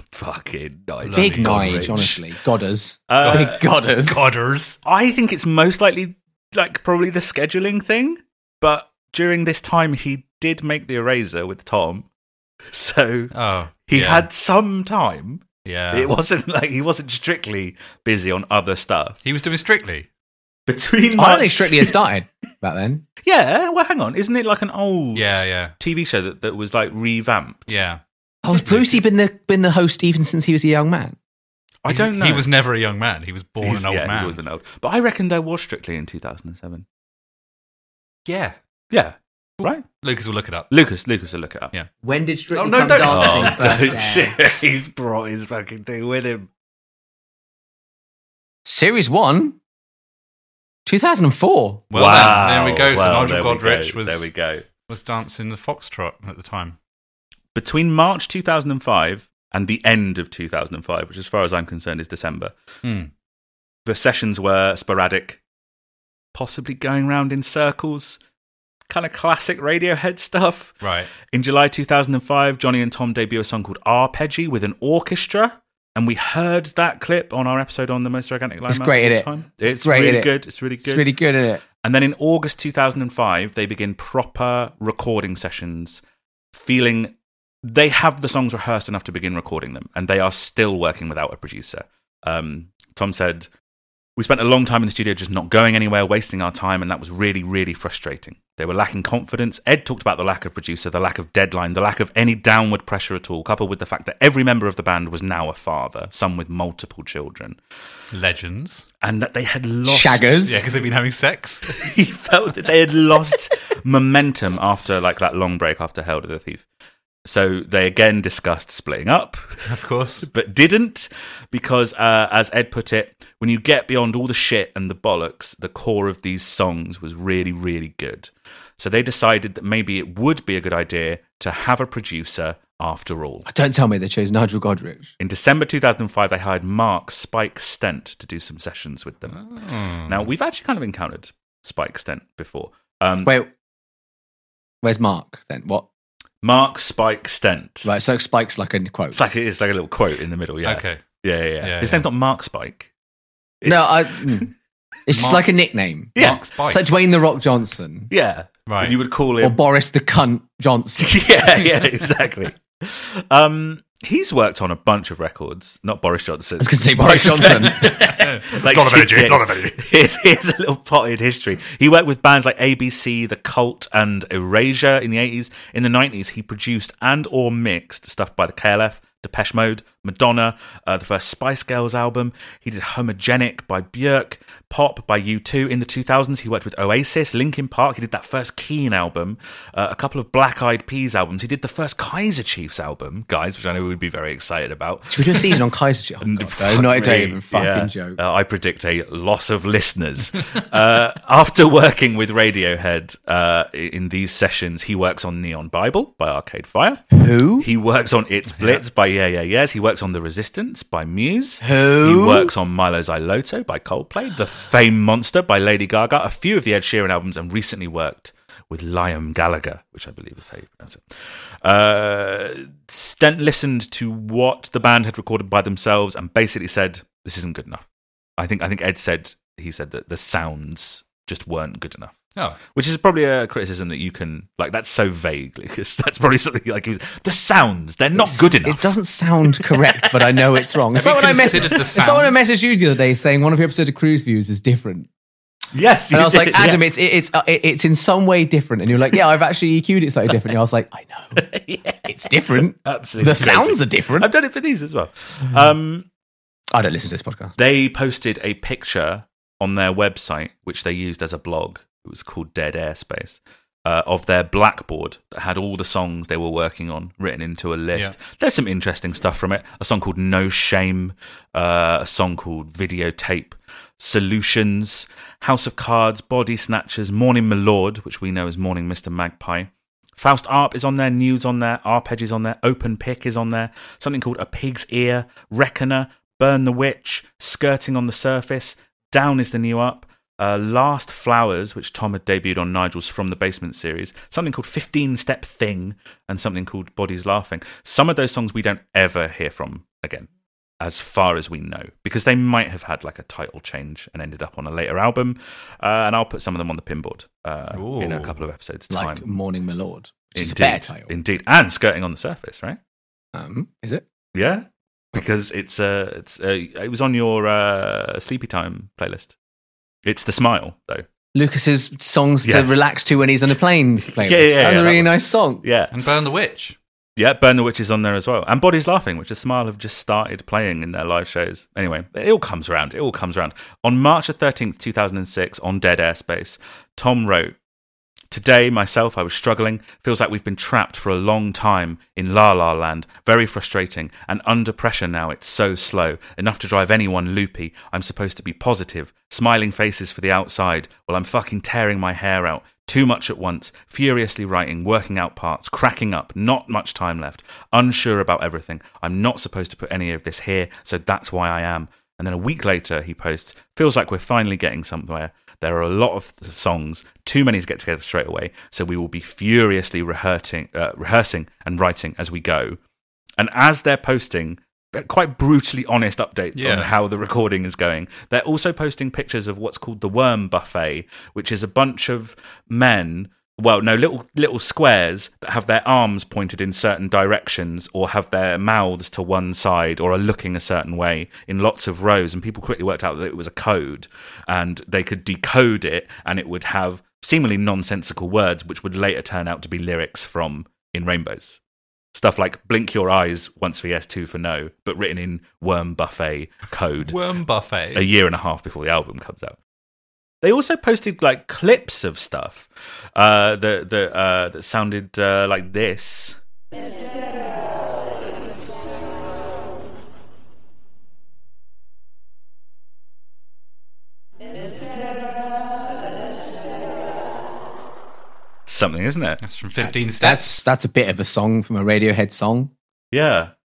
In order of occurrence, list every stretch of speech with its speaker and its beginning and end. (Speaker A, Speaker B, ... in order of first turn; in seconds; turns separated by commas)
Speaker A: 0.1-2.1, Speaker B: 1.0-2.2, Speaker C: 1.1-4.2, Speaker A: 3.1-3.6, Speaker B: 3.2-4.8, Speaker A: 4.8-12.1, Speaker A: 12.7-13.3, Speaker B: 13.3-14.3, Speaker A: 13.9-19.2, Speaker B: 15.6-16.1, Speaker B: 19.2-20.1, Speaker A: 20.7-21.9, Speaker C: 21.1-23.0, Speaker A: 23.2-27.7, Speaker B: 25.1-25.7, Speaker B: 27.7-29.0, Speaker C: 28.4-31.2, Speaker A: 31.8-32.5, Speaker B: 31.9-34.4, Speaker A: 33.6-36.9, Speaker B: 38.3-38.5, Speaker A: 38.9-39.8, Speaker B: 39.6-40.7, Speaker A: 40.7-41.7, Speaker C: 42.0-44.5, Speaker B: 42.5-43.9, Speaker A: 43.0-46.5, Speaker C: 48.6-49.6, Speaker C: 50.9-51.8, Speaker B: 51.9-54.2, Speaker A: 51.9-54.7, Speaker B: 54.9-56.8, Speaker A: 57.5-62.5, Speaker B: 62.8-63.1, Speaker A: 63.9-65.4, Speaker A: 66.3-68.2, Speaker A: 68.9-81.1, Speaker B: 70.8-71.1, Speaker C: 78.7-81.6, Speaker A: 81.8-86.0, Speaker A: 86.5-93.5, Speaker A: 94.2-107.6, Speaker B: 108.1-108.8, Speaker A: 109.0-110.6, Speaker C: 109.8-110.7, Speaker B: 110.4-111.8, Speaker A: 111.7-116.7, Speaker A: 117.2-119.4, Speaker B: 119.7-120.3, Speaker A: 120.2-133.5, Speaker C: 133.4-135.1, Speaker A: 135.2-139.4, Speaker B: 139.3-140.2, Speaker A: 140.0-143.3, Speaker C: 143.2-143.5, Speaker C: 144.8-145.9, Speaker A: 146.4-147.9, Speaker C: 147.8-149.3, Speaker A: 149.1-152.9, Speaker B: 150.6-151.0, Speaker B: 151.6-152.1, Speaker A: 153.6-154.5, Speaker C: 153.6-154.5, Speaker C: 155.1-158.1, Speaker B: 155.1-155.5, Speaker A: 156.1-156.4, Speaker B: 156.1-156.8, Speaker A: 158.1-159.6, Speaker B: 158.7-158.9, Speaker C: 159.4-161.7, Speaker A: 161.0-195.6, Speaker C: 166.6-168.0, Speaker B: 167.5-169.8, Speaker C: 195.1-198.2, Speaker A: 196.2-227.8, Speaker C: 207.1-207.7, Speaker B: 208.6-208.8, Speaker C: 211.6-212.5, Speaker A: 228.4-238.9, Speaker C: 238.1-245.1, Speaker A: 239.6-240.4, Speaker B: 240.9-242.4, Speaker A: 245.7-246.8, Speaker C: 246.1-251.4, Speaker A: 251.3-256.1, Speaker C: 252.0-254.3, Speaker C: 256.7-257.5, Speaker A: 257.6-300.3, Speaker A: 300.8-309.3, Speaker B: 307.7-308.4, Speaker C: 308.9-311.1, Speaker A: 310.3-312.8, Speaker C: 313.3-314.0, Speaker A: 314.3-319.4, Speaker A: 320.0-321.1, Speaker C: 321.3-325.6, Speaker A: 322.4-322.7, Speaker A: 324.2-325.9, Speaker B: 325.9-326.8, Speaker A: 327.2-337.6, Speaker A: 338.3-372.8, Speaker A: 373.4-401.6, Speaker B: 376.5-376.9, Speaker A: 402.1-407.2, Speaker B: 407.1-408.1, Speaker A: 407.9-409.6, Speaker A: 410.4-416.4, Speaker A: 428.7-429.4, Speaker B: 429.4-430.5, Speaker C: 429.8-432.7, Speaker A: 433.1-433.5